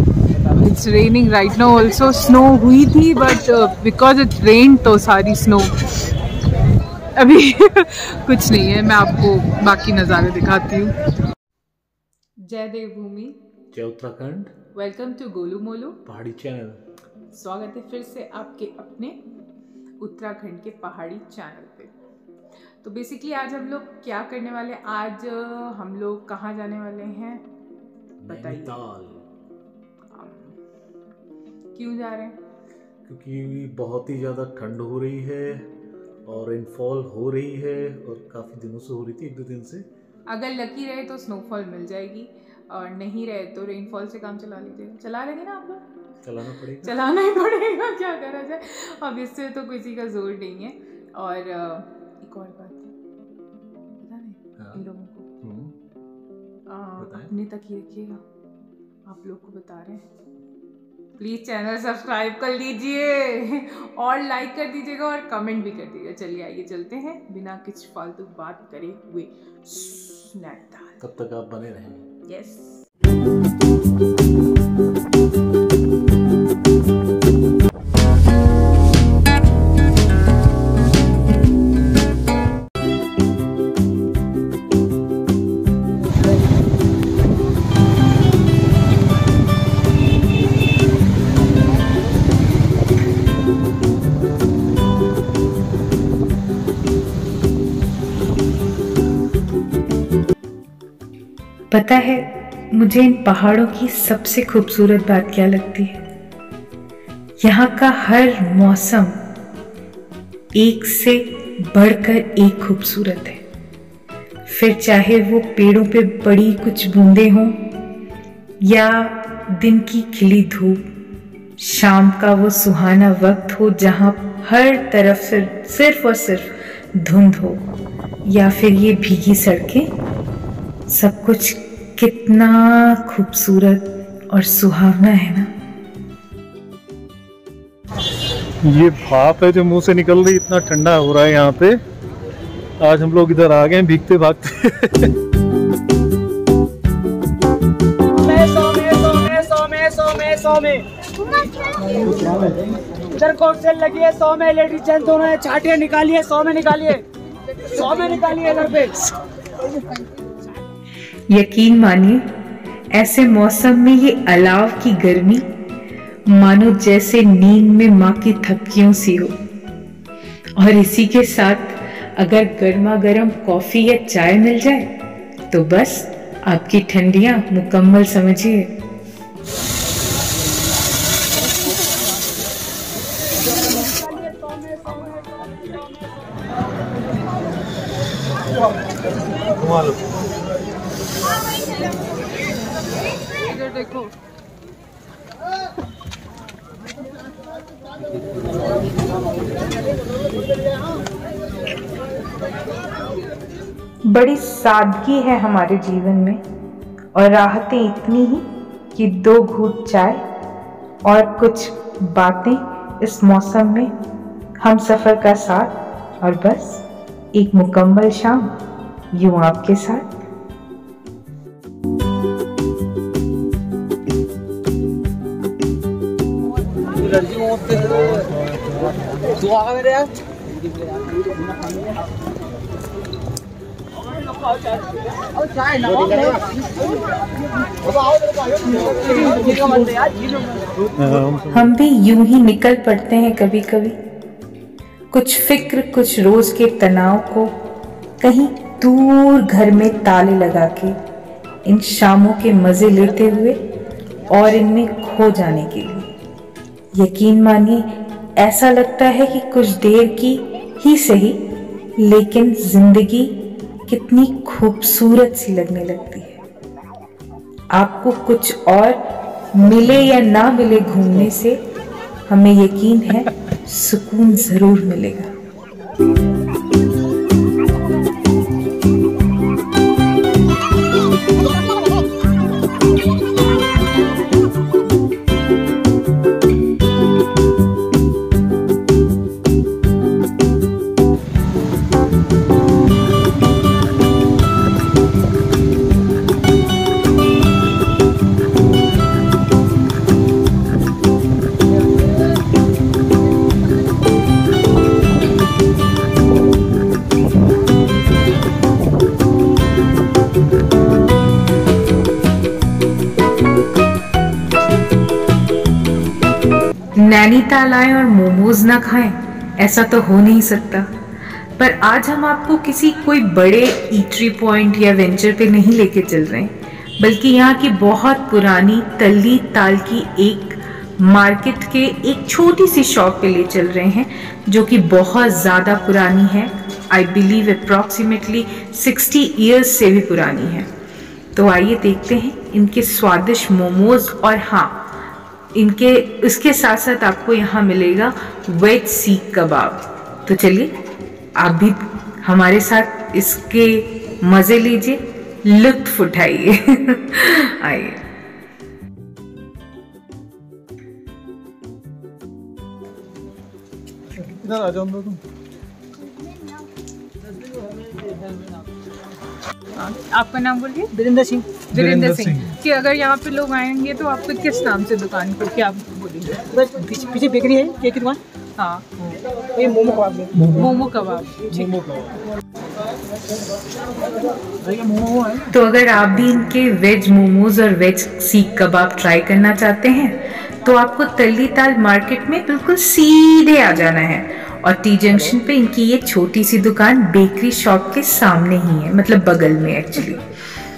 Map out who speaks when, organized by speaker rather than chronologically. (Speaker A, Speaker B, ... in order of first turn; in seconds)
Speaker A: 0.6-5.8, 7.2-10.9, 12.4-13.4, 14.7-16.0, 17.3-19.2, 20.0-21.9, 22.8-27.4, 28.3-28.9, 30.1-30.6, 31.8-32.4, 40.3-45.8, 46.7-53.0, 54.0-55.3, 56.7-58.2, 59.1-60.0, 61.2-71.0, 72.2-72.9, 193.4-194.1, 239.0-239.6, 369.8-370.9, 371.7-376.5, 378.6-378.9, 380.5-381.8
Speaker B: 13.7-14.5, 16.1-16.8, 28.2-29.3, 33.1-35.7, 36.3-39.9, 46.2-46.9, 55.4-55.7, 57.0-57.3, 71.0-72.1
Speaker C: 101.7-106.0, 107.4-109.2, 110.6-113.4, 114.5-117.6, 118.6-120.8, 121.6-127.6, 128.3-129.9, 130.9-135.5, 161.3-162.2, 162.9-165.4, 166.3-169.4, 170.6-174.9, 175.5-178.7, 204.1-206.4, 207.2-210.2, 211.1-213.9, 214.6-216.8, 217.3-218.5, 219.1-220.1, 241.5-244.0, 245.1-247.5, 248.2-251.0, 251.7-253.6, 254.3-256.1, 256.9-257.9, 258.4-261.4, 262.0-263.4, 263.9-266.4, 267.7-269.0, 269.5-271.6, 272.3-275.3, 317.0-320.9, 321.6-340.7, 341.4-344.8, 345.6-350.7, 351.4-358.0, 385.5-400.2
Speaker D: 138.6-141.8, 142.8-145.1, 189.6-190.2, 241.0-241.6, 364.2-365.2, 371.8-372.5, 381.7-382.1
Speaker E: 148.1-150.9, 151.9-152.5, 153.1-157.0, 157.7-159.0, 184.2-184.9, 229.5-230.0, 235.8-236.4, 370.9-371.7, 376.5-378.2, 379.6-380.5, 384.7-385.4